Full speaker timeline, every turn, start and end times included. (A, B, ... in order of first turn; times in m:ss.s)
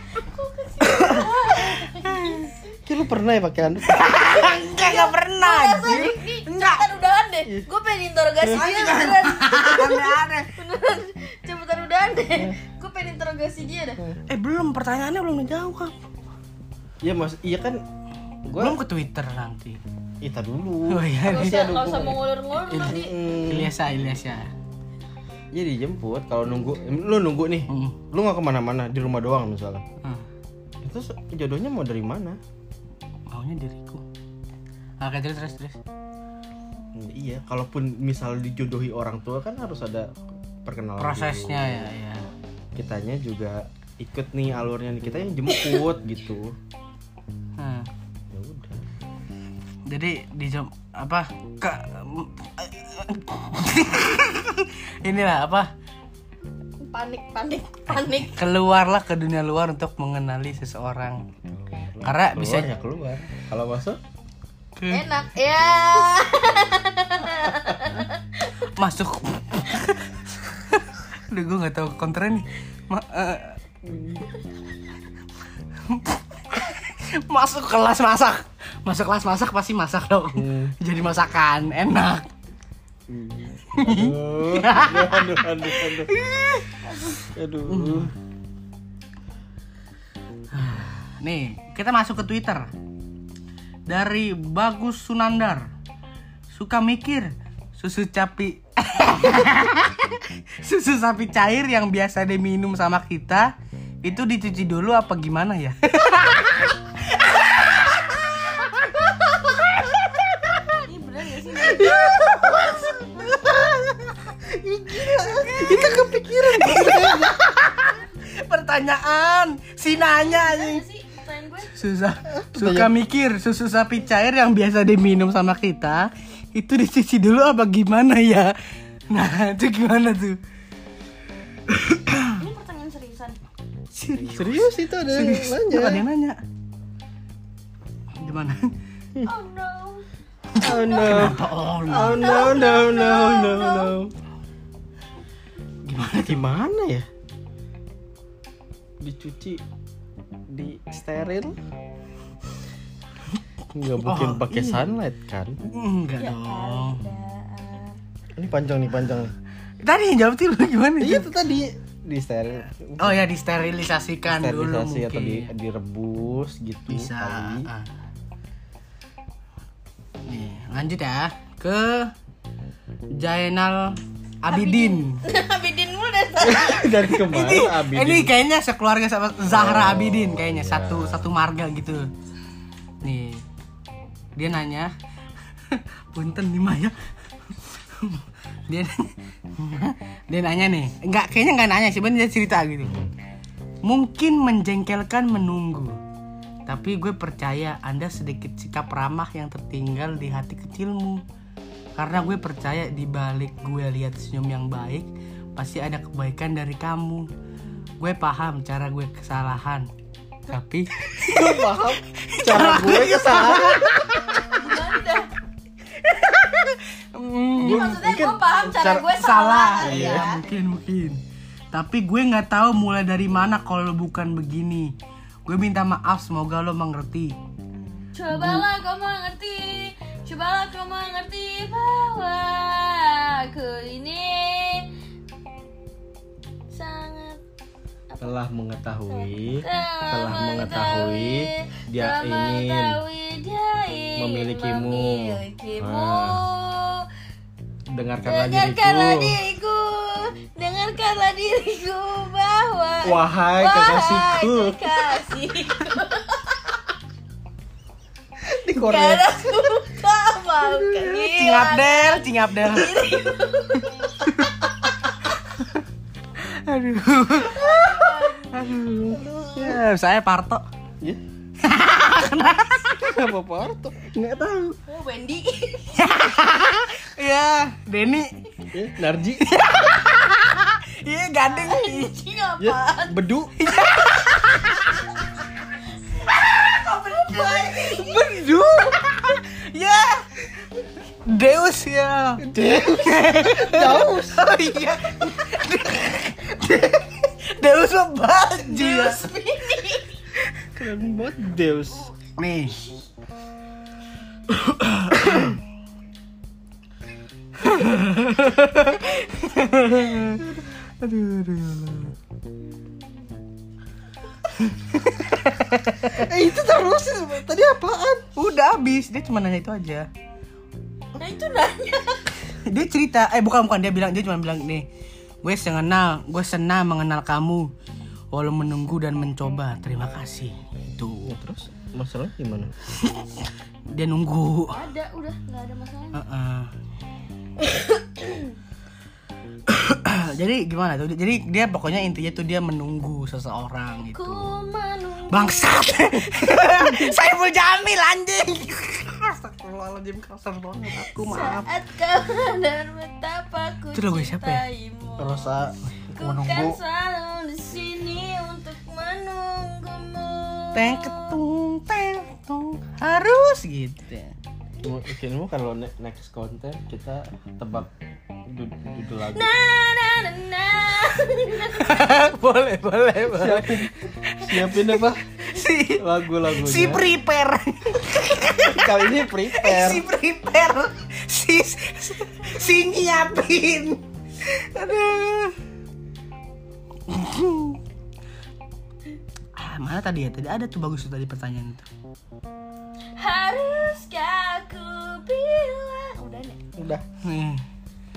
0:00.1-0:02.7 A
0:00.8-0:02.5 B
0:02.8-0:04.1 C
0:03.8-0:06.8 B
0:04.1-0:14.0 A
0:08.5-0:10.5 B
0:14.3-0:16.0 B
0:17.0-0:17.8 C
0:18.4-0:18.8 C
0:18.6-0:19.8 B
0:20.2-0:23.7 C
0:20.9-0:21.7 B
0:21.2-0:23.2 A
0:22.8-0:24.5 B
0:25.5-0:29.8 C
0:27.7-0:28.0 B
0:30.8-0:32.4 C
0:33.3-0:34.0 B
0:35.0-0:35.8 B
0:36.9-0:41.9 C
0:41.0-0:42.3 B
0:42.8-0:46.6 C
0:47.6-0:47.9 B
0:48.3-0:48.8 C
0:49.9-0:55.7 B
0:56.8-0:58.4 A
0:57.9-1:01.2 B
1:01.5-1:04.0 C
1:02.0-1:02.7 B
1:04.8-1:05.0 B
1:04.9-1:08.6 A
1:08.7-1:13.6 B
1:13.8-1:14.3 C
1:15.8-1:22.3 B
1:20.3-1:20.7 C
1:23.1-1:26.1 C
1:23.7-1:26.8 B
1:26.8-1:27.2 A
1:27.3-1:28.1 C
1:27.7-1:28.1 B
1:30.5-1:32.7 B
1:33.9-1:35.6 B
1:36.5-1:43.5 B
1:44.0-1:50.6 B
1:50.8-1:52.0 A
1:51.6-1:57.4 C
1:55.0-2:00.8 B
1:59.9-2:01.8 A
2:01.7-2:08.5 B
2:02.3-2:02.9 C
2:09.1-2:10.4 B
2:11.7-2:12.4 B
2:12.3-2:13.4 A
2:13.9-2:16.4 B
2:14.3-2:16.0 C
2:18.2-2:18.7 B
2:19.2-2:24.0 A
2:20.5-2:22.5 B
2:20.6-2:24.1 C
2:25.8-2:26.4 B
2:26.2-2:27.1 C
2:29.0-2:29.6 C
2:30.5-2:31.6 C
2:33.7-2:35.6 C
2:34.0-2:34.8 B
2:35.6-2:37.0 B
2:36.2-2:38.0 A
2:38.4-2:39.3 C
2:39.8-2:41.3 B
2:41.0-2:43.2 C
2:43.0-2:45.5 B
2:44.3-2:47.7 C
2:46.9-2:47.9 B
2:50.2-2:52.1 B
2:53.2-2:55.2 B
2:54.5-2:57.0 A
2:56.4-2:58.3 C
2:57.1-3:02.1 B
2:59.5-3:01.3 C
3:03.0-3:03.4 B
3:04.4-3:04.9 B
3:05.7-3:06.9 B
3:07.6-3:13.1 B
3:13.8-3:16.0 B
3:16.7-3:21.2 B
3:22.0-3:27.3 B
3:28.0-3:29.9 B
3:30.5-3:34.4 B
3:31.2-3:34.1 C
3:34.3-3:35.3 A
3:36.0-3:38.0 B
3:37.6-3:39.1 C
3:37.6-3:40.4 A
3:39.1-3:41.2 B
3:39.8-3:40.3 C
3:41.7-3:44.9 B
3:45.4-3:47.4 B
3:48.1-3:54.9 A
3:56.7-3:57.4 A
3:58.1-3:58.4 A
3:58.2-4:03.0 C
3:59.1-4:07.0 A
4:04.2-4:06.4 C
4:07.9-4:09.4 C
4:08.2-4:16.8 A
4:13.0-4:15.0 C
4:18.5-4:19.4 C
4:18.7-4:24.5 A
4:20.6-4:21.3 C
4:21.3-4:22.9 B
4:26.4-4:27.7 B
4:27.4-4:29.8 A
4:28.5-4:30.6 B
4:29.6-4:29.8 C
4:31.6-4:33.2 B
4:33.0-4:34.1 C
4:34.1-4:34.8 B
4:34.8-4:36.1 A
4:35.9-4:38.3 B
4:38.7-4:39.4 C
4:39.4-4:42.1 B
4:41.4-4:43.2 A
4:42.6-4:43.5 C
4:43.6-4:45.1 B
4:46.0-4:49.0 A
4:46.6-4:50.2 B
4:51.2-4:59.3 B
4:52.4-4:54.4 C
4:58.6-5:00.2 A
5:00.7-5:02.1 C
5:02.4-5:02.8 B
5:04.6-5:05.6 B
5:07.6-5:12.1 B
5:10.2-5:10.6 C
5:14.6-5:16.3 B
5:16.1-5:18.3 C
5:18.4-5:20.1 B
5:21.2-5:22.4 A
5:22.5-5:24.8 B
5:25.4-5:27.7 B
5:28.3-5:31.3 B
5:31.2-5:32.7 C
5:33.0-5:34.7 B
5:34.7-5:36.2 A
5:36.1-5:36.7 B
5:38.0-5:38.5 A
5:39.7-5:44.5 B
5:44.1-5:47.3 A
5:45.3-5:51.7 B
5:50.9-5:55.4 A
5:53.9-5:54.6 B
5:55.2-5:56.8 C
5:56.1-6:01.4 A
6:00.7-6:04.3 B
6:04.8-6:07.9 C
6:08.4-6:09.5 C
6:09.3-6:12.2 A
6:11.7-6:25.5 B
6:13.3-6:15.2 C
6:16.0-6:17.1 C
6:18.6-6:20.0 C
6:27.1-6:27.8 B
6:29.6-6:31.9 B
6:33.2-6:36.6 A
6:36.8-6:37.0 C
6:37.2-6:37.6 B